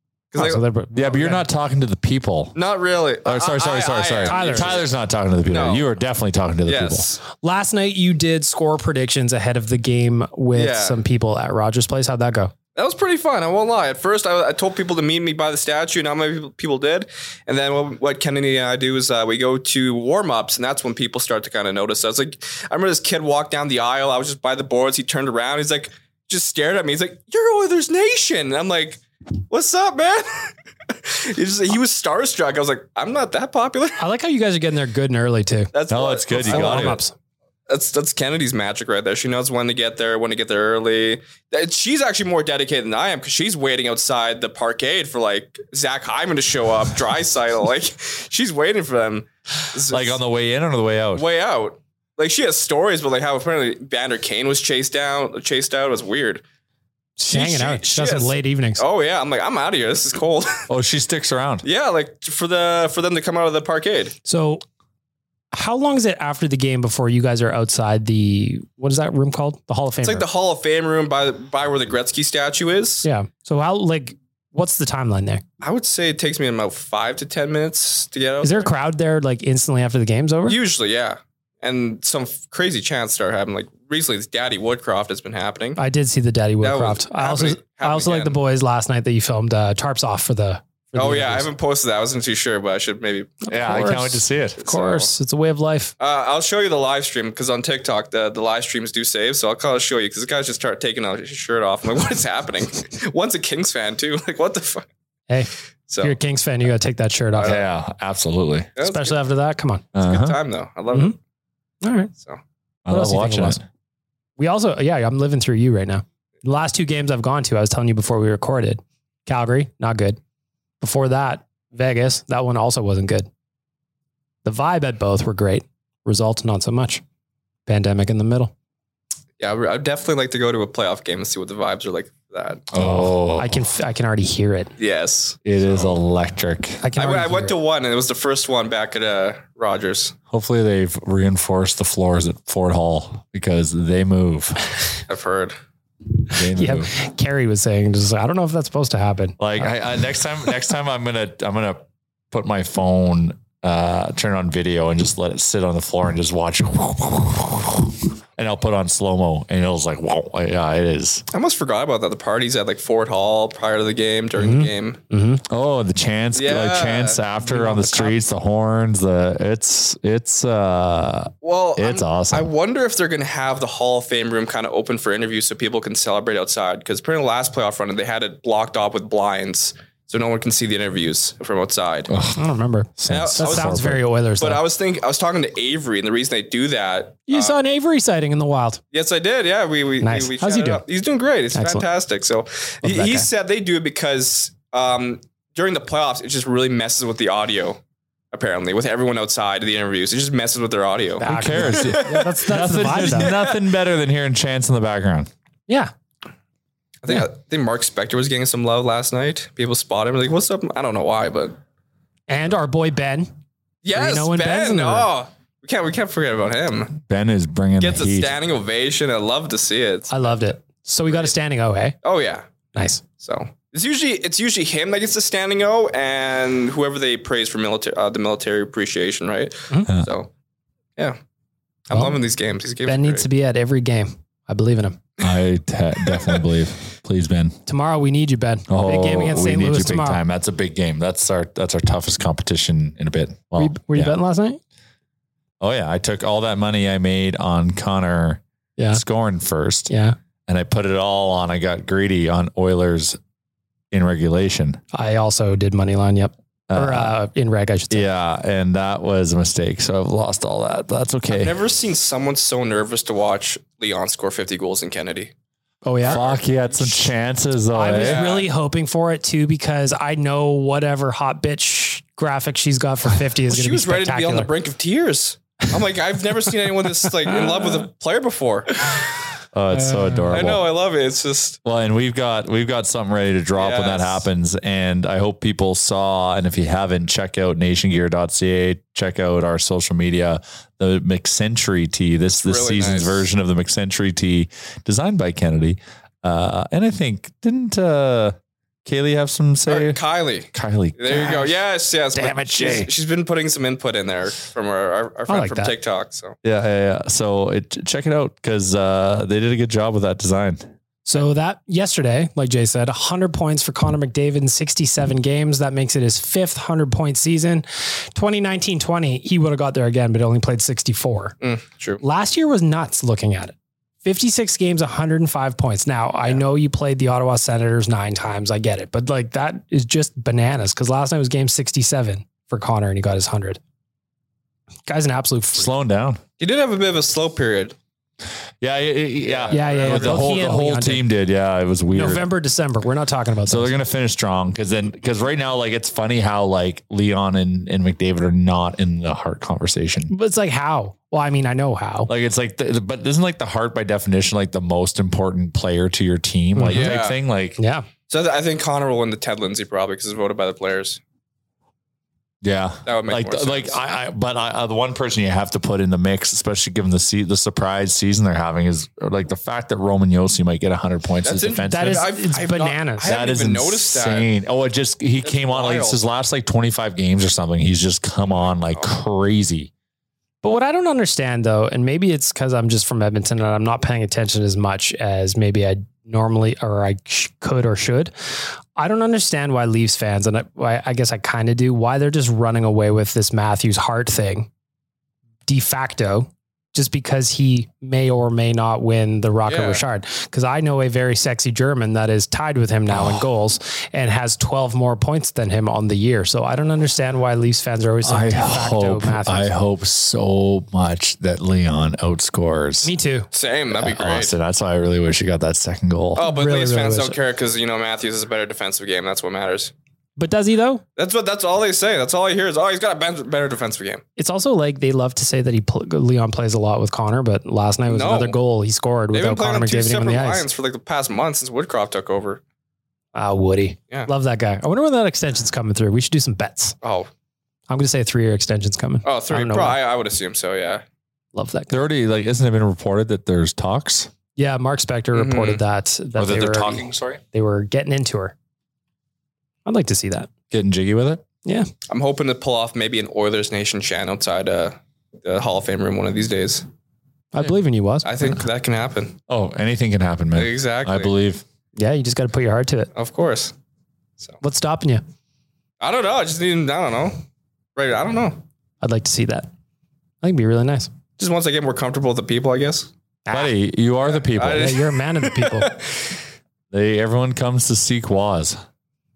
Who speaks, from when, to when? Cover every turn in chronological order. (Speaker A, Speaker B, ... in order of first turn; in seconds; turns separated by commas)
Speaker A: 0.3-0.6, Speaker B: 0.3-1.4, Speaker C: 0.9-2.6, Speaker A: 2.5-4.9, Speaker C: 3.2-7.1, Speaker B: 4.2-4.8, Speaker A: 5.5-5.9, Speaker A: 6.6-7.2, Speaker B: 7.3-12.5, Speaker A: 10.5-11.0, Speaker A: 12.7-34.0, Speaker B: 34.0-35.7, Speaker A: 35.7-37.0, Speaker C: 35.9-37.0, Speaker B: 36.4-37.1, Speaker A: 37.7-50.2, Speaker C: 49.9-51.2, Speaker A: 51.1-56.4, Speaker B: 57.2-58.8, Speaker A: 57.2-60.6, Speaker C: 60.7-61.6, Speaker A: 61.6-64.1, Speaker B: 64.2-64.6, Speaker B: 65.5-70.2, Speaker A: 70.0-73.0, Speaker B: 73.0-75.4, Speaker A: 75.6-78.7, Speaker B: 78.4-80.6, Speaker A: 80.5-85.8, Speaker B: 85.8-91.5, Speaker A: 86.6-88.4, Speaker A: 90.9-93.5, Speaker C: 93.5-94.6, Speaker B: 93.5-95.9, Speaker A: 94.6-95.1, Speaker A: 96.0-104.8, Speaker A: 105.9-106.2, Speaker B: 106.0-107.6, Speaker A: 107.4-107.6, Speaker C: 107.4-108.7, Speaker A: 108.8-109.2, Speaker B: 108.8-109.8, Speaker C: 109.9-110.4, Speaker A: 110.0-111.2, Speaker B: 111.8-112.1, Speaker C: 112.8-113.6, Speaker B: 112.9-113.6, Speaker B: 114.4-120.2, Speaker B: 120.8-123.3, Speaker B: 124.4-127.0, Speaker B: 127.7-128.5, Speaker A: 129.4-132.7, Speaker C: 132.7-133.7, Speaker B: 132.8-134.7, Speaker A: 134.8-136.0, Speaker C: 135.4-136.8, Speaker B: 136.8-137.5, Speaker A: 136.9-140.2, Speaker C: 140.3-144.6, Speaker A: 145.1-145.6, Speaker C: 146.3-146.9, Speaker B: 146.5-149.7, Speaker C: 149.4-161.2, Speaker A: 161.3-165.0, Speaker B: 164.4-165.4, Speaker C: 165.5-172.5, Speaker A: 166.3-167.2, Speaker B: 167.4-168.1, Speaker A: 171.4-182.1, Speaker C: 182.1-182.4, Speaker B: 182.3-184.6, Speaker C: 183.0-184.0, Speaker A: 183.1-183.8, Speaker A: 184.4-187.6, Speaker B: 187.3-188.8, Speaker A: 188.9-197.8, Speaker B: 190.0-190.8, Speaker B: 191.5-191.8, Speaker B: 192.8-193.3, Speaker A: 198.3-203.6, Speaker B: 201.2-203.3, Speaker C: 201.2-205.3, Speaker A: 207.0-211.6, Speaker B: 212.3-213.3, Speaker A: 213.8-216.9, Speaker B: 213.9-215.1, Speaker C: 217.0-218.4, Speaker A: 217.8-220.5, Speaker B: 220.1-221.9, Speaker A: 221.1-221.3, Speaker A: 222.0-222.4, Speaker B: 222.7-223.0, Speaker A: 223.2-230.3, Speaker A: 231.9-233.3, Speaker B: 231.9-232.2, Speaker B: 232.8-235.0, Speaker C: 235.2-237.6, Speaker B: 237.7-240.2, Speaker C: 238.7-244.2, Speaker B: 243.6-244.6, Speaker C: 245.6-249.9, Speaker B: 249.9-250.2, Speaker C: 250.5-253.2, Speaker C: 253.9-254.8, Speaker B: 254.9-258.0, Speaker C: 256.7-257.2, Speaker C: 257.9-261.6, Speaker A: 261.3-265.3, Speaker B: 265.8-266.3, Speaker A: 266.0-267.0, Speaker C: 266.0-268.3, Speaker B: 267.7-274.5, Speaker A: 267.8-268.5, Speaker A: 273.5-279.0, Speaker C: 279.5-280.6, Speaker B: 279.7-280.3, Speaker A: 280.3-281.6, Speaker C: 281.6-300.0, Speaker A: 283.5-284.2, Speaker A: 292.4-293.2, Speaker A: 299.7-306.3, Speaker C: 300.5-301.5, Speaker B: 302.1-302.9, Speaker B: 305.3-305.7, Speaker C: 306.4-310.7, Speaker B: 311.1-321.4, Speaker A: 321.4-322.0, Speaker B: 322.0-333.6, Speaker B: 334.9-335.7, Speaker C: 335.5-336.2, Speaker A: 336.4-337.7, Speaker C: 338.6-342.3, Speaker A: 339.2-340.4, Speaker B: 339.5-341.0, Speaker B: 341.9-343.8, Speaker C: 343.5-350.1, Speaker B: 350.1-352.1, Speaker C: 352.1-357.6, Speaker B: 356.5-356.9, Speaker A: 356.7-357.2, Speaker B: 357.6-357.9, Speaker A: 358.1-361.0, Speaker C: 362.4-372.1, Speaker A: 362.8-363.8, Speaker A: 371.2-374.3, Speaker B: 371.7-373.1, Speaker C: 373.0-379.7, Speaker A: 375.2-376.0, Speaker A: 378.2-378.9, Speaker B: 380.4-388.1, Speaker B: 388.8-394.5, Speaker B: 395.5-409.5, Speaker A: 399.4-399.8, Speaker C: 402.9-403.3, Speaker C: 408.0-412.9, Speaker B: 412.8-413.3, Speaker A: 413.3-414.3, Speaker C: 413.7-416.2, Speaker A: 416.1-419.7, Speaker B: 416.2-417.1, Speaker B: 420.2-420.8, Speaker A: 421.0-424.0, Speaker B: 424.2-430.4, Speaker A: 427.9-428.4, Speaker A: 429.1-432.4, Speaker B: 433.1-436.7, Speaker A: 436.8-437.1, Speaker B: 437.7-439.8, Speaker A: 439.0-440.8, Speaker B: 441.3-441.8, Speaker C: 441.7-444.1, Speaker B: 444.4-448.3, Speaker A: 445.1-445.6, Speaker C: 446.2-447.2, Speaker B: 449.6-450.3, Speaker C: 450.5-451.2, Speaker A: 451.9-456.6, Speaker B: 457.3-458.1, Speaker A: 458.0-459.1, Speaker C: 459.3-461.4, Speaker A: 460.3-461.1, Speaker B: 461.8-462.9, Speaker A: 462.9-463.5, Speaker B: 464.4-465.0, Speaker A: 465.8-467.2, Speaker A: 467.8-468.4, Speaker B: 468.8-469.5, Speaker B: 470.2-470.9, Speaker A: 471.2-472.9, Speaker B: 473.2-473.5, Speaker C: 473.3-474.8, Speaker A: 474.1-476.2, Speaker B: 474.5-475.7, Speaker C: 476.7-478.6